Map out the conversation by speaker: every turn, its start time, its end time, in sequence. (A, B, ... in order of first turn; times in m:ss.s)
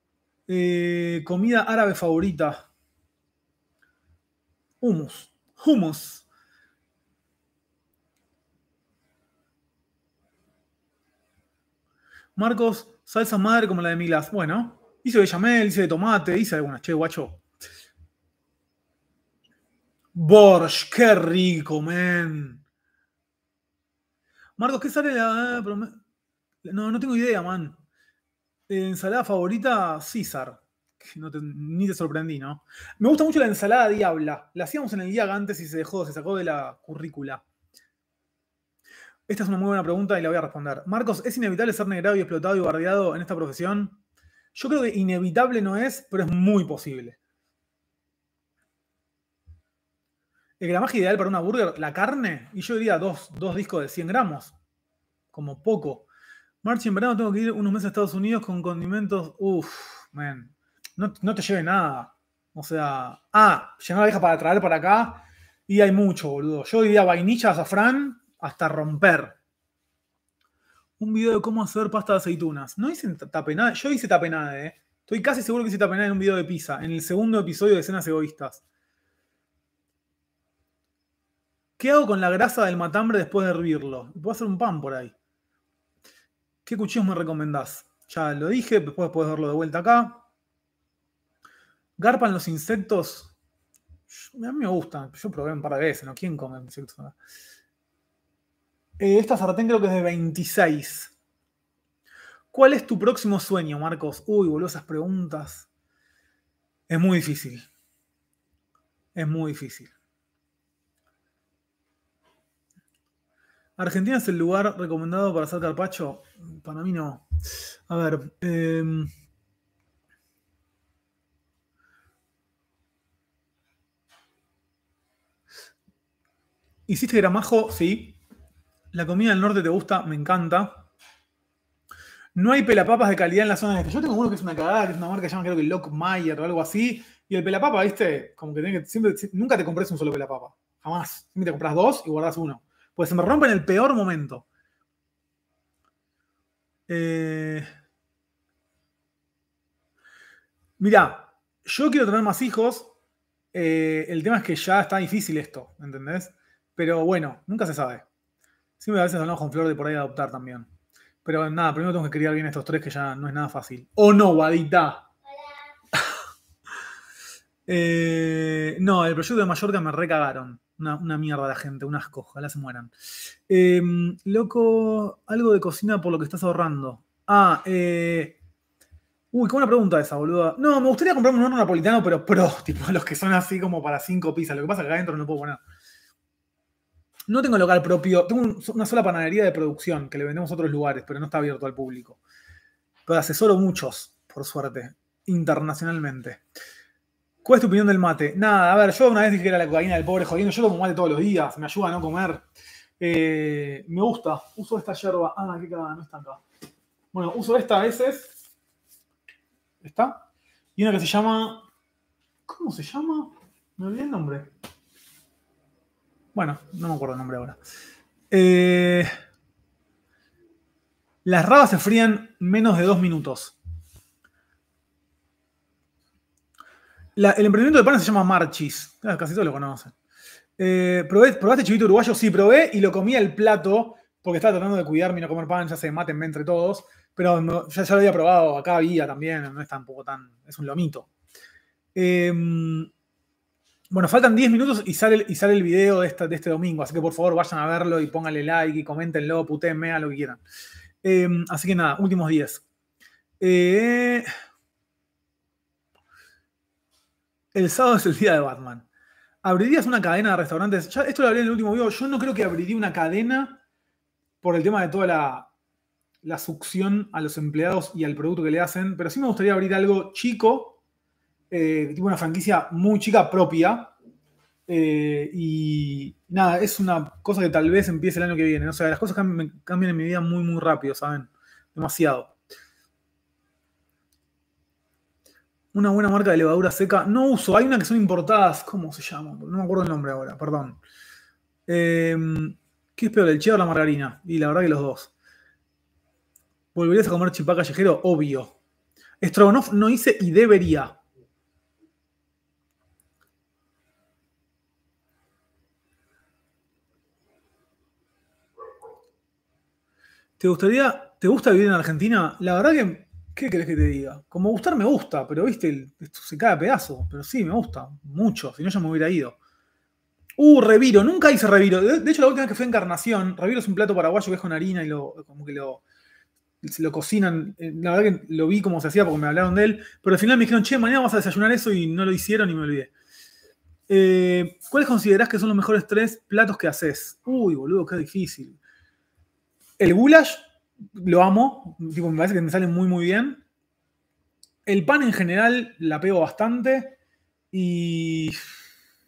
0:00.5-0:02.7 A
0:04.8-0:06.2 A
0:12.4-0:17.4 A
0:20.1-0:22.6 A
0:24.6-0:26.0 A
0:26.6-0:27.8 A
0:28.7-0:37.4 A
0:39.3-0:44.0 A
0:44.5-0:47.2 A
0:50.6-0:54.5 A
0:55.3-0:56.1 A
0:56.6-1:09.4 A
1:11.0-1:18.6 A
1:21.8-1:25.1 A
1:26.6-1:30.2 A
1:32.0-1:33.3 A
1:34.1-1:37.2 A
1:39.0-1:41.1 A
1:42.5-1:45.7 A
1:46.9-1:47.7 A
1:49.2-1:49.9 A
1:53.8-1:57.3 A
1:57.9-1:59.1 A
2:06.9-2:08.2 A
2:08.9-2:10.9 A
2:12.4-2:24.5 A
2:26.9-2:27.7 A
2:30.8-2:32.9 A
2:33.5-2:38.0 A
2:38.8-2:40.7 A
2:41.2-2:45.1 A
2:47.7-2:52.9 A
2:53.5-2:58.4 A
2:59.3-3:05.6 A
3:07.3-3:12.2 A
3:13.1-3:16.4 A
3:17.4-3:22.4 A
3:23.0-3:26.4 A
3:27.1-3:28.3 A
3:29.8-3:30.2 A
3:30.8-3:31.7 A
3:32.5-3:34.5 A
3:36.4-3:37.6 A
3:38.3-3:39.1 A
3:41.2-3:43.6 A
3:47.2-3:49.9 A
3:50.6-4:01.1 A
4:02.0-4:02.9 A
4:03.9-4:10.4 A
4:11.0-4:12.6 A
4:13.4-4:14.3 A
4:17.5-4:18.9 A
4:19.4-4:23.6 A
4:24.4-4:25.5 A
4:26.2-4:30.8 A
4:31.5-4:33.9 A
4:34.7-4:42.4 A
4:45.7-4:50.8 A
4:51.7-4:55.1 A
4:56.7-4:58.6 A
4:59.2-5:01.0 A
5:10.4-5:19.4 A
5:20.4-5:25.8 A
5:26.6-5:32.9 A
5:33.9-5:38.6 A
5:39.8-5:40.4 A
5:41.0-5:43.4 A
5:44.7-5:47.0 A
5:47.5-5:48.4 A